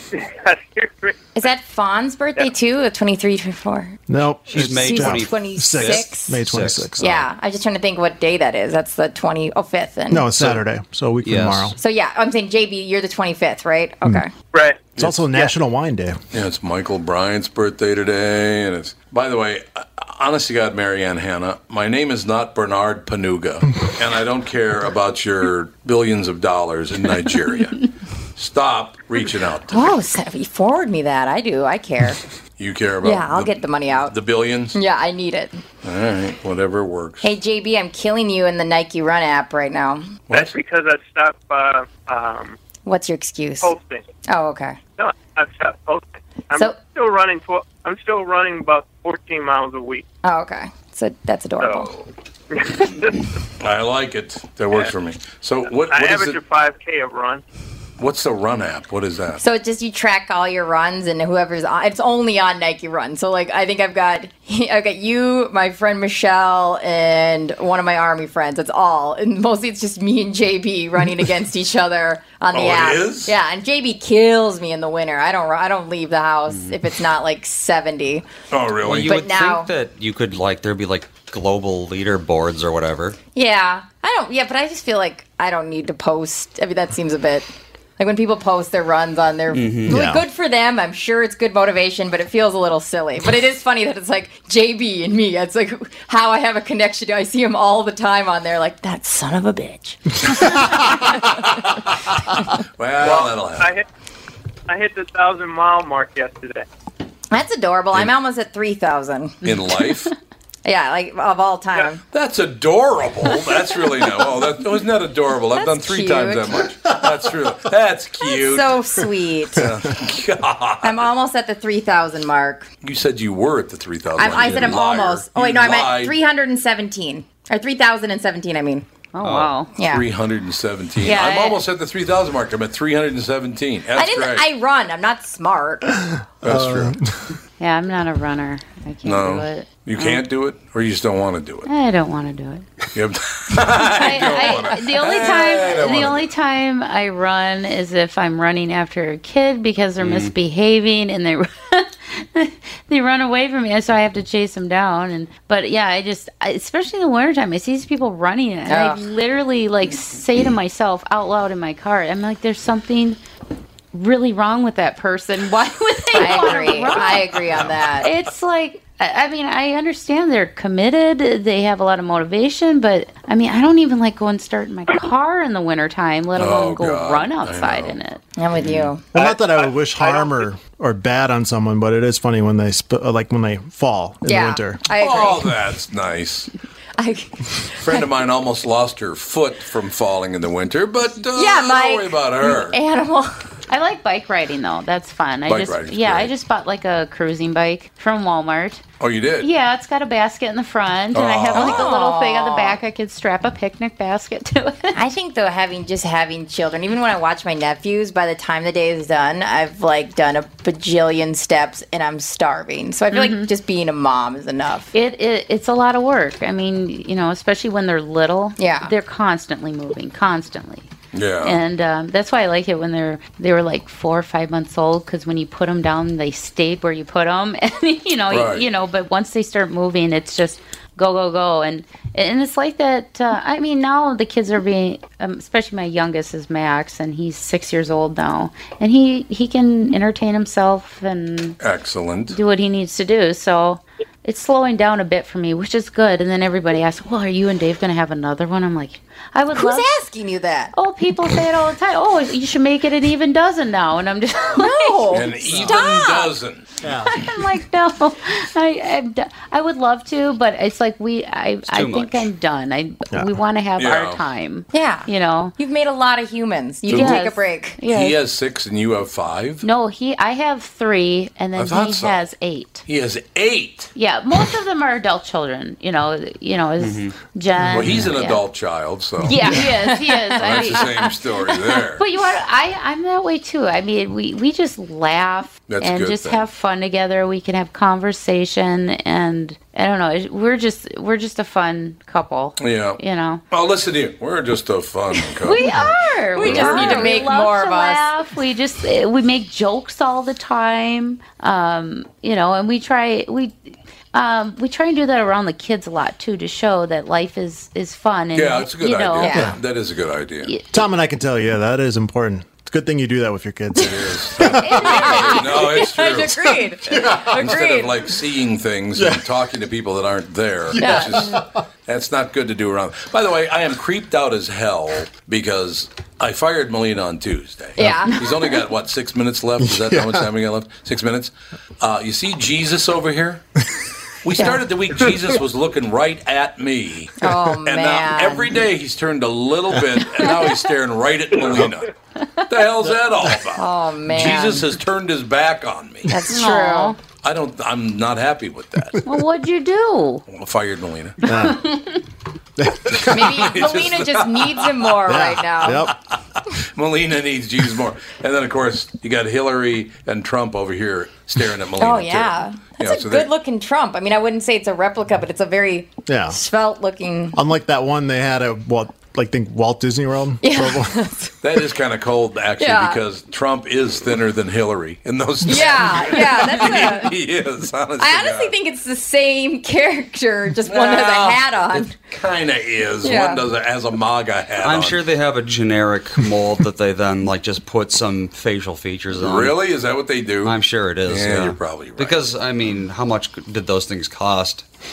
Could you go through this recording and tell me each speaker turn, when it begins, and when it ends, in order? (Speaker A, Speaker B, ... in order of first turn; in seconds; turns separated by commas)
Speaker A: 0.1-1.1, Speaker B: 1.4-4.0, Speaker C: 4.1-7.0, Speaker D: 4.5-7.3, Speaker B: 4.5-6.4, Speaker B: 7.0-10.3, Speaker C: 10.1-11.8, Speaker D: 11.2-11.7, Speaker B: 11.8-14.3, Speaker A: 14.5-14.9, Speaker E: 15.0-15.3, Speaker C: 15.0-16.2, Speaker E: 16.3-27.8, Speaker E: 28.4-29.9, Speaker B: 29.7-32.2, Speaker E: 32.6-34.8, Speaker B: 33.0-34.1, Speaker B: 34.7-35.6, Speaker E: 35.8-37.3, Speaker B: 37.2-40.1, Speaker E: 40.3-40.6, Speaker A: 40.3-42.6, Speaker B: 42.8-43.7, Speaker A: 43.6-44.0, Speaker B: 44.3-44.8, Speaker A: 45.0-50.0, Speaker B: 50.2-51.9, Speaker A: 51.6-51.9, Speaker A: 52.5-53.3, Speaker E: 53.6-56.4, Speaker A: 55.8-57.4, Speaker E: 58.0-59.4, Speaker B: 59.4-78.2, Speaker E: 72.5-73.3, Speaker E: 78.5-79.2, Speaker D: 78.8-83.2, Speaker B: 79.0-79.7, Speaker B: 83.3-100.7, Speaker D: 89.5-90.1, Speaker C: 89.9-90.2, Speaker E: 102.8-103.7, Speaker A: 103.0-103.8, Speaker A: 104.7-106.7, Speaker B: 107.3-109.4, Speaker E: 109.4-110.1, Speaker B: 110.6-112.0, Speaker E: 112.1-118.9, Speaker B: 115.5-116.7, Speaker B: 118.2-119.7, Speaker E: 119.5-121.1, Speaker B: 120.8-122.7, Speaker E: 122.8-126.2, Speaker B: 124.2-128.8, Speaker F: 129.1-129.7, Speaker D: 129.2-129.6, Speaker B: 129.8-130.0, Speaker E: 129.8-134.5, Speaker F: 131.0-131.6, Speaker B: 133.9-135.9, Speaker E: 136.4-137.0, Speaker C: 136.4-137.2, Speaker F: 137.6-140.2, Speaker E: 139.0-141.7, Speaker F: 141.7-142.7, Speaker E: 142.9-146.3, Speaker F: 143.7-163.2, Speaker D: 150.0-150.3, Speaker B: 158.7-159.0, Speaker F: 163.9-178.2, Speaker B: 166.1-168.1, Speaker E: 176.3-178.0, Speaker B: 178.4-179.1, Speaker C: 179.1-184.8, Speaker A: 179.2-180.4, Speaker B: 184.2-185.5, Speaker E: 184.9-186.5, Speaker B: 187.0-187.3, Speaker E: 187.8-192.8, Speaker B: 191.3-193.3, Speaker F: 193.7-198.8, Speaker E: 195.4-196.3, Speaker E: 199.0-199.5, Speaker F: 199.4-205.0, Speaker E: 201.1-201.9, Speaker B: 201.5-202.8, Speaker B: 204.9-214.9, Speaker F: 213.1-213.5, Speaker F: 214.9-220.9, Speaker B: 218.6-218.9, Speaker E: 221.1-221.6, Speaker F: 221.4-241.6, Speaker E: 228.3-228.7, Speaker E: 241.6-242.4, Speaker F: 242.3-249.9, Speaker B: 249.5-250.7, Speaker F: 250.7-255.1, Speaker B: 254.5-256.3, Speaker E: 255.1-256.7, Speaker C: 255.4-255.8, Speaker C: 256.8-257.2, Speaker F: 257.1-265.5, Speaker D: 261.6-262.3, Speaker E: 263.8-264.2, Speaker B: 264.7-268.1, Speaker E: 266.9-267.2, Speaker F: 266.9-268.1, Speaker E: 267.8-269.6, Speaker F: 269.6-272.9, Speaker E: 271.5-272.2, Speaker E: 272.9-273.9, Speaker F: 273.9-278.5, Speaker D: 276.8-277.1, Speaker E: 277.7-279.5, Speaker F: 279.2-281.1, Speaker B: 279.3-281.1, Speaker E: 280.4-282.0, Speaker F: 282.0-293.4, Speaker E: 285.7-286.4, Speaker E: 292.6-293.0, Speaker E: 293.5-297.2, Speaker F: 295.3-309.4, Speaker B: 295.7-298.1, Speaker E: 308.3-310.5, Speaker B: 309.2-309.5, Speaker C: 310.7-315.0, Speaker E: 313.7-316.6, Speaker B: 314.4-318.0, Speaker C: 316.9-317.2, Speaker E: 317.3-333.4, Speaker C: 318.9-319.2, Speaker C: 320.7-321.4, Speaker B: 320.8-321.4, Speaker B: 327.8-328.6, Speaker C: 329.6-330.3, Speaker E: 334.2-341.9, Speaker B: 337.2-338.6, Speaker E: 342.5-346.1, Speaker B: 343.5-344.6, Speaker B: 346.1-346.9, Speaker F: 346.3-347.0, Speaker E: 347.2-349.0, Speaker F: 349.0-350.2, Speaker E: 350.3-351.2, Speaker C: 351.2-351.6, Speaker F: 351.3-352.0, Speaker C: 352.6-353.2, Speaker B: 353.1-355.9, Speaker E: 353.1-354.9, Speaker C: 355.1-355.9, Speaker E: 356.1-363.3, Speaker B: 361.8-367.4, Speaker C: 366.1-366.4, Speaker C: 367.3-370.9, Speaker B: 370.4-371.3, Speaker E: 371.4-378.5, Speaker B: 372.6-373.0, Speaker B: 375.4-377.1, Speaker B: 378.0-381.9, Speaker E: 380.6-385.0, Speaker B: 383.0-383.4, Speaker D: 384.6-389.5, Speaker E: 389.1-392.2, Speaker D: 390.4-394.6